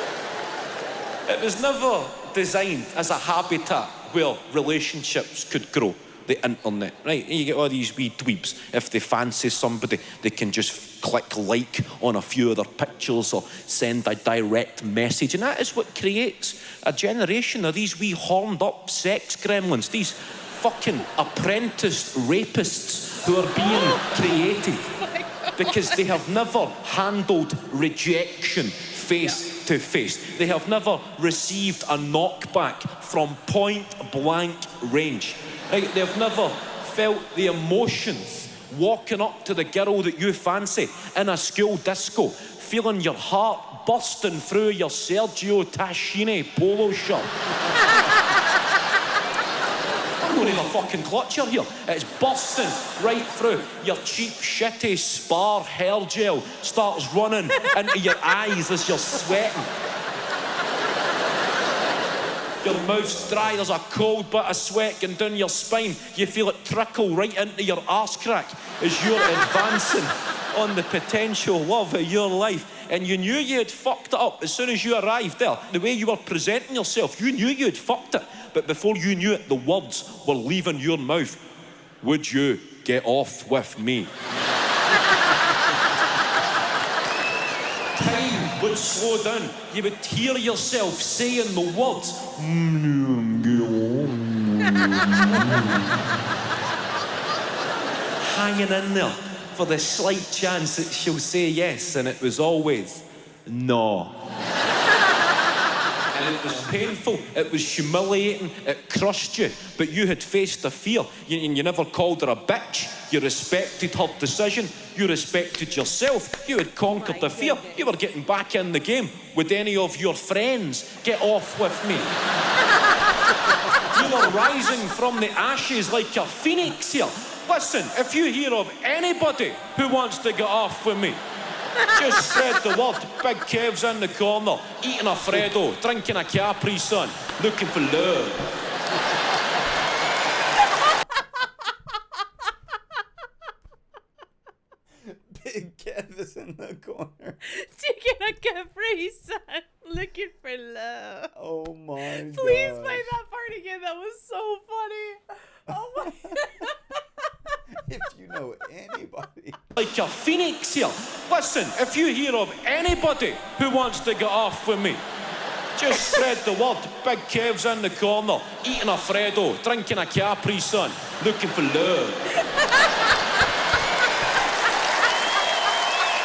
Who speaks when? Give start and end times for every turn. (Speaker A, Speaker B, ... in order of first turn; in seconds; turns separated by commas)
Speaker A: 1.2-24.9, Speaker B: 23.5-26.1, Speaker A: 25.6-47.3, Speaker A: 50.2-59.7, Speaker A: 62.6-81.4, Speaker A: 82.0-84.1, Speaker A: 87.9-95.9, Speaker A: 98.2-104.2, Speaker A: 106.1-122.1, Speaker B: 116.8-117.9, Speaker A: 123.8-131.2, Speaker A: 131.8-138.5, Speaker C: 145.1-147.4, Speaker B: 147.4-151.3, Speaker C: 151.3-153.1, Speaker B: 152.1-156.8, Speaker C: 155.7-156.3, Speaker C: 157.8-159.6, Speaker A: 159.8-165.0, Speaker A: 165.8-172.3, Speaker B: 172.4-172.9